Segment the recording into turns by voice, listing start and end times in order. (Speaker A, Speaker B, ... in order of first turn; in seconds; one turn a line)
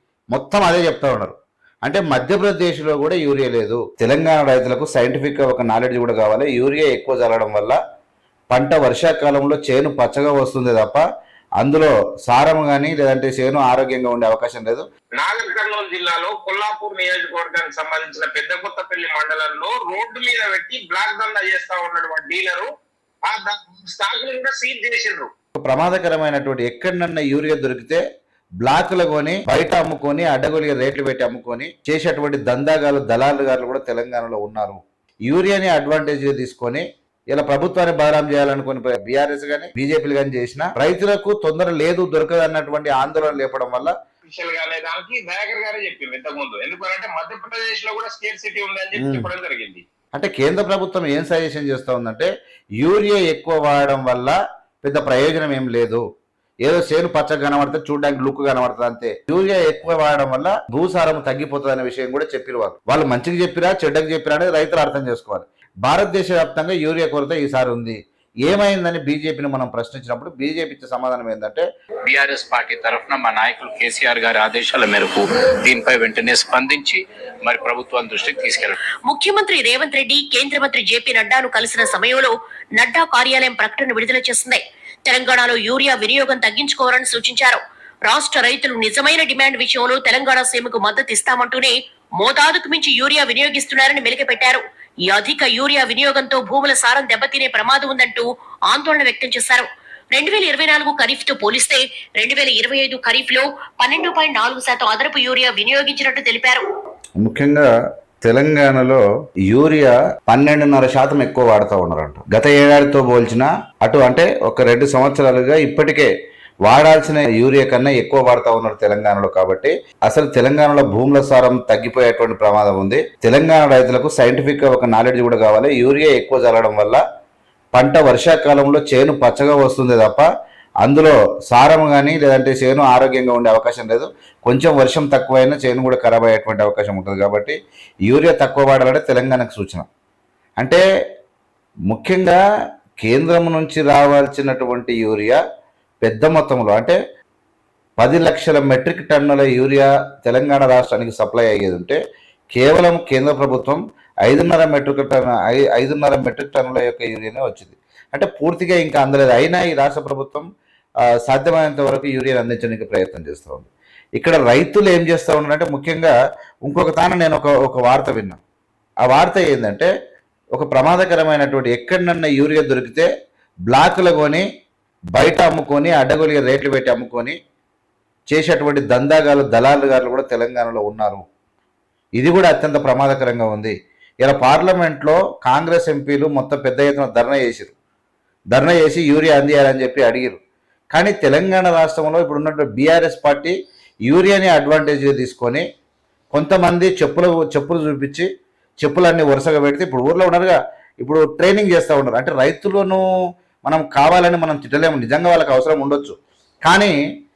Speaker A: 0.3-7.8
Speaker A: 8.5-11.0
Speaker A: 11.6-14.8
Speaker B: 15.2-22.7
Speaker B: 23.3-25.3
Speaker A: 25.6-28.0
Speaker A: 28.6-43.9
Speaker B: 44.2-49.8
Speaker A: 49.0-49.3
Speaker A: 50.2-52.3
Speaker A: 52.8-56.0
Speaker A: 56.6-71.7
Speaker C: 72.0-78.8
Speaker D: 79.1-106.6
Speaker A: 107.2-107.7
Speaker A: 108.2-116.1
Speaker A: 116.6-127.0
Speaker A: 127.7-130.2
Speaker A: 130.8-137.6
Speaker A: 138.1-139.9
Speaker A: 141.9-142.4
Speaker A: 143.0-145.4
Speaker A: 146.0-147.0
Speaker A: 148.0-152.0
Speaker A: 152.5-160.4
Speaker A: 161.2-166.1
Speaker A: 166.7-168.4
Speaker A: 169.0-169.9
Speaker A: 170.5-173.1
Speaker A: 173.7-174.4
Speaker A: 175.1-177.3
Speaker A: 178.3-181.2
Speaker A: 182.2-187.8
Speaker A: 188.5-190.4
Speaker A: 190.9-193.5
Speaker A: 194.1-195.6
Speaker A: 196.3-198.3
Speaker A: 198.8-203.0
Speaker A: 203.6-206.9